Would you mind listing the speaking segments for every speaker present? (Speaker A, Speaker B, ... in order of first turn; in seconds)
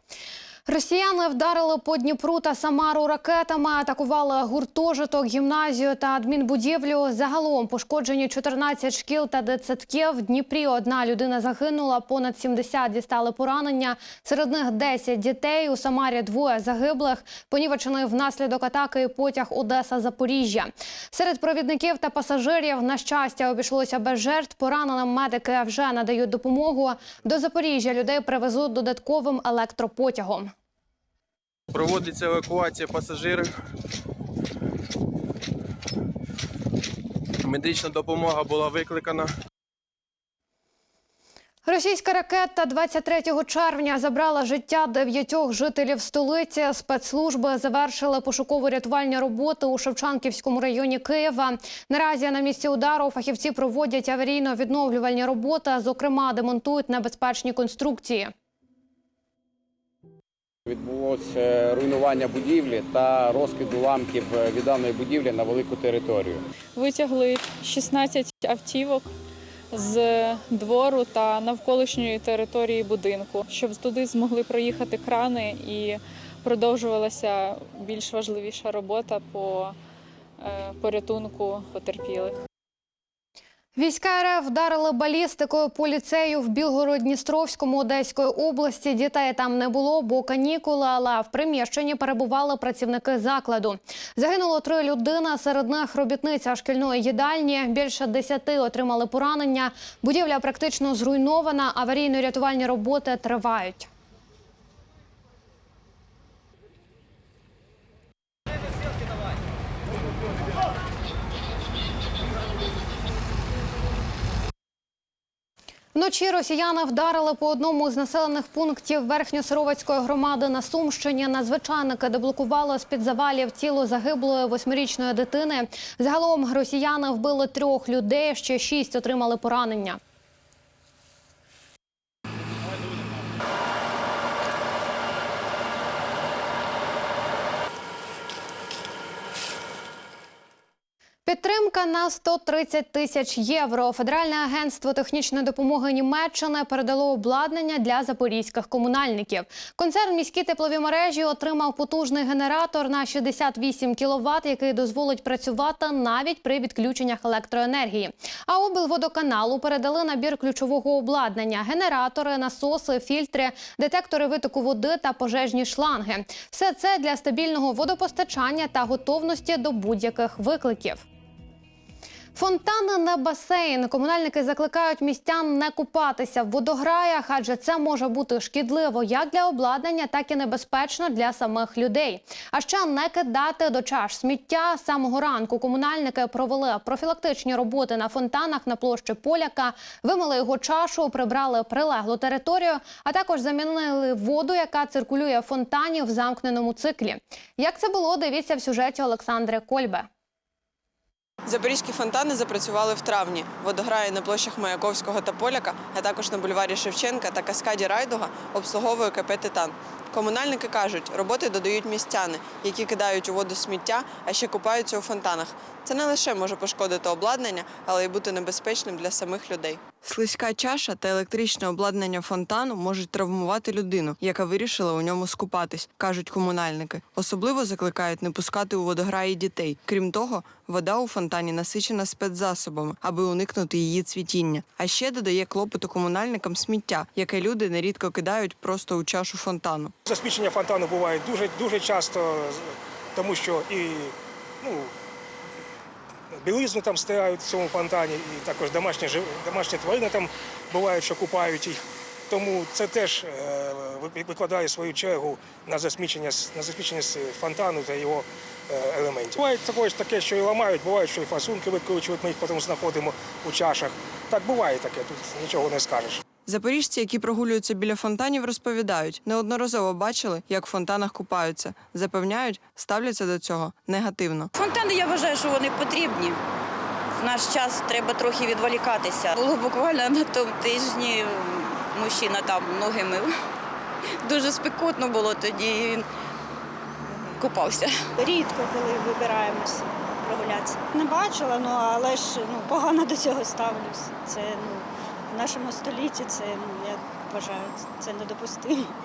Speaker A: 0.7-30.5, 41.6-58.3, 83.8-103.9, 116.0-130.0, 141.2-171.1, 172.3-200.1
Speaker B: 31.7-33.5, 37.4-39.3
Speaker C: 60.7-66.5
Speaker D: 66.8-69.1, 69.7-79.8, 80.4-82.4
Speaker E: 201.5-239.9, 266.5-274.5
Speaker F: 240.1-244.9, 246.3-266.2
Speaker G: 274.6-276.4, 277.1-283.4, 284.2-286.1, 287.1-288.1
Speaker H: 288.2-298.9